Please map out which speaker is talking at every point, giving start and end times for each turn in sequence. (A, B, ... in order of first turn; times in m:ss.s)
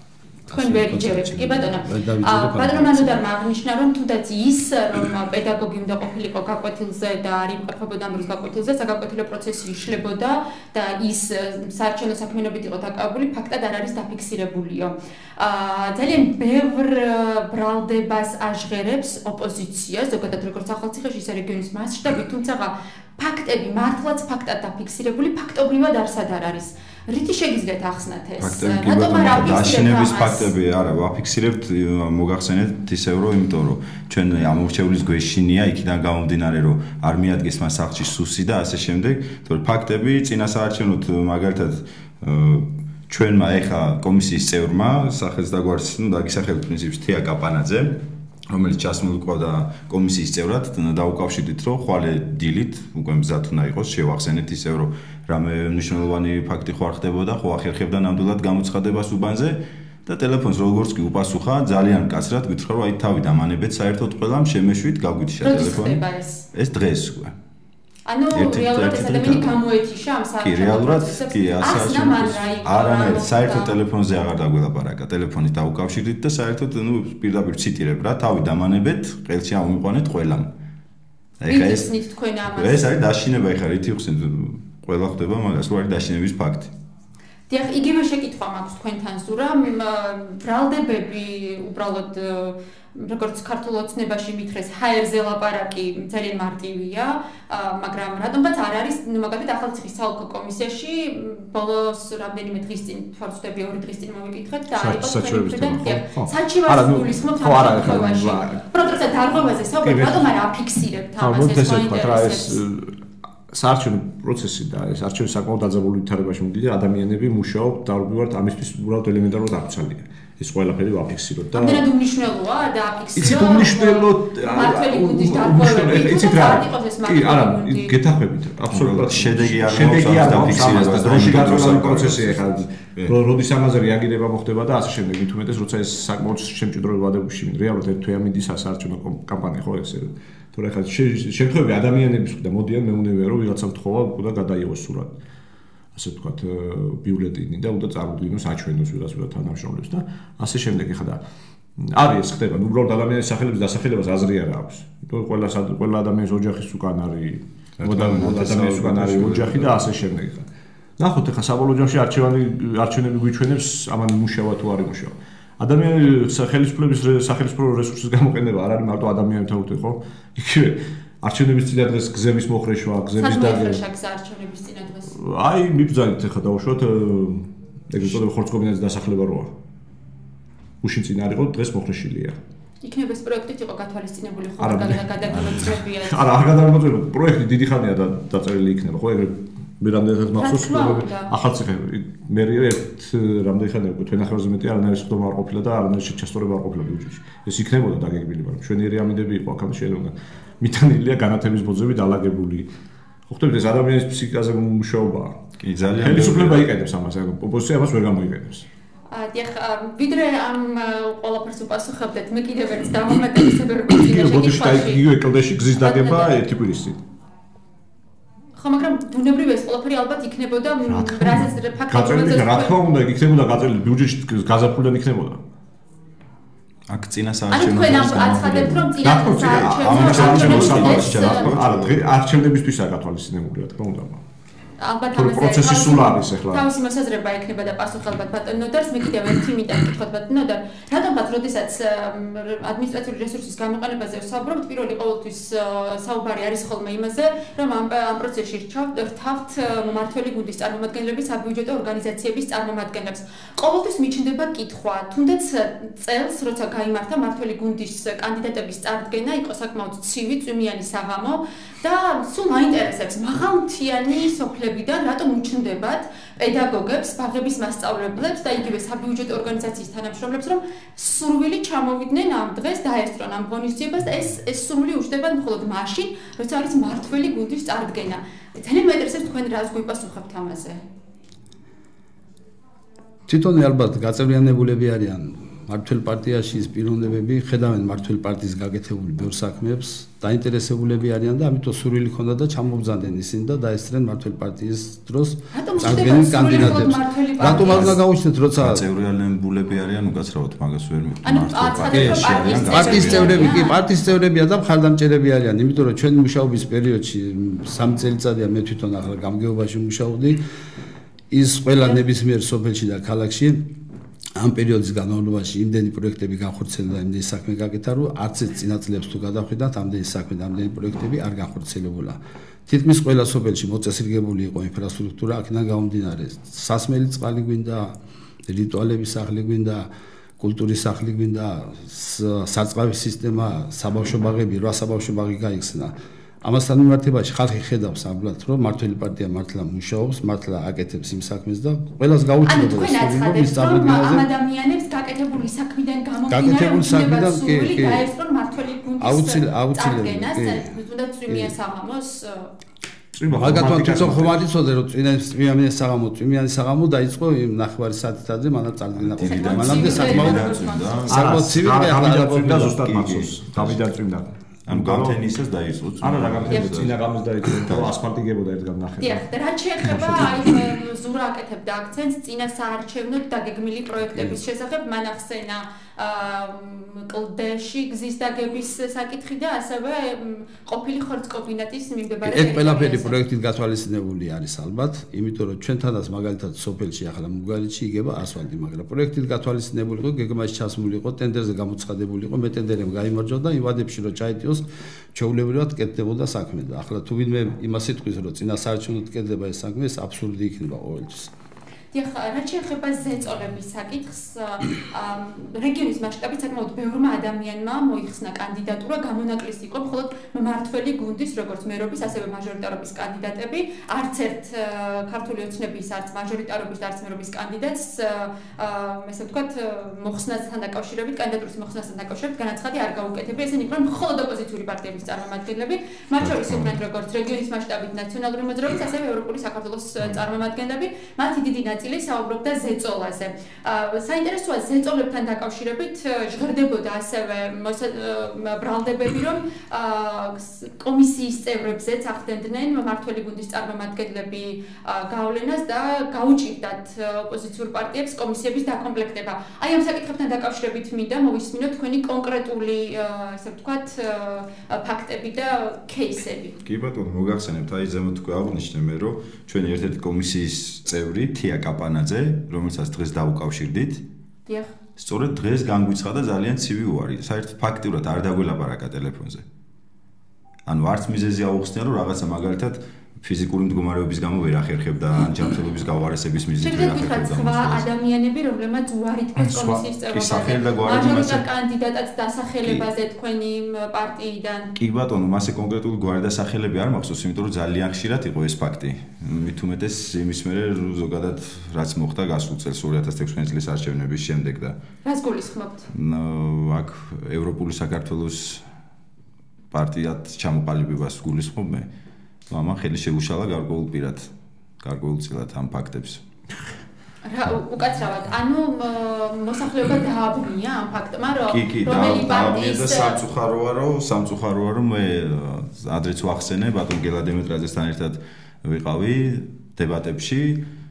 0:00.5-0:03.2 A
0:00.5-0:30.5 B
0:28.4-1:07.3 C
1:05.4-1:06.5 B
1:08.1-1:13.8 B
1:08.3-1:09.6 C
1:10.4-1:20.5 C
1:21.4-1:21.9 C
1:21.5-1:22.9 B
1:22.5-1:26.7 C
1:27.5-1:52.6 B
1:44.7-1:48.6 D
1:49.8-1:50.3 D
1:51.2-2:01.9 D
2:01.5-2:08.0 B
2:03.1-2:25.2 D
2:08.7-2:13.1 C
2:25.9-2:31.2 D
2:31.8-2:53.8 D
2:37.8-2:39.9 C
2:53.2-2:55.1 B
2:55.1-2:59.5 D
3:00.8-3:02.4 D
3:02.8-3:06.3 B
3:04.6-3:22.7 D
3:10.3-3:11.3 B
3:23.3-3:25.4 D
3:25.6-3:26.7 C
3:26.0-3:28.7 D
3:29.1-3:35.0 B
3:33.9-3:37.0 D
3:35.8-3:36.4 B
3:38.6-3:42.8 B
3:40.8-3:45.4 D
3:46.9-3:52.1 C
3:47.5-3:51.6 B
3:49.0-3:54.2 D
3:54.8-4:40.8 B
3:55.1-3:56.6 D
4:43.3-4:58.8 A
4:55.5-4:58.0 B
4:58.6-5:03.6 C
5:01.2-5:03.7 B
5:01.9-5:10.4 A
5:11.3-5:13.7 A
5:14.4-5:28.0 A
5:28.5-5:44.2 A
5:42.4-5:52.5 B
5:46.3-5:48.0 A
5:49.0-5:50.7 A
5:51.3-5:51.5 A
5:53.1-5:54.4 D
5:53.3-6:02.8 A
5:59.0-6:01.2 C
5:59.3-6:01.1 B
6:01.1-6:05.2 D
6:02.8-6:03.8 C
6:04.6-6:07.0 C
6:06.0-6:09.3 D
6:07.5-6:07.9 C
6:09.0-6:23.2 B
6:09.8-6:10.6 D
6:22.2-6:41.3 A
6:41.9-7:36.6 B
7:06.2-7:06.7 C
7:36.6-7:44.0 C
7:44.5-7:44.7 B
7:45.0-7:49.4 C
7:50.6-7:57.8 C
7:56.6-8:04.7 B
7:59.4-8:01.4 C
8:04.8-8:14.8 C
8:15.0-8:15.9 B
8:15.9-8:18.6 C
8:19.7-8:21.9 C
8:22.5-8:26.2 C
8:27.2-8:33.2 B
8:31.5-8:40.6 C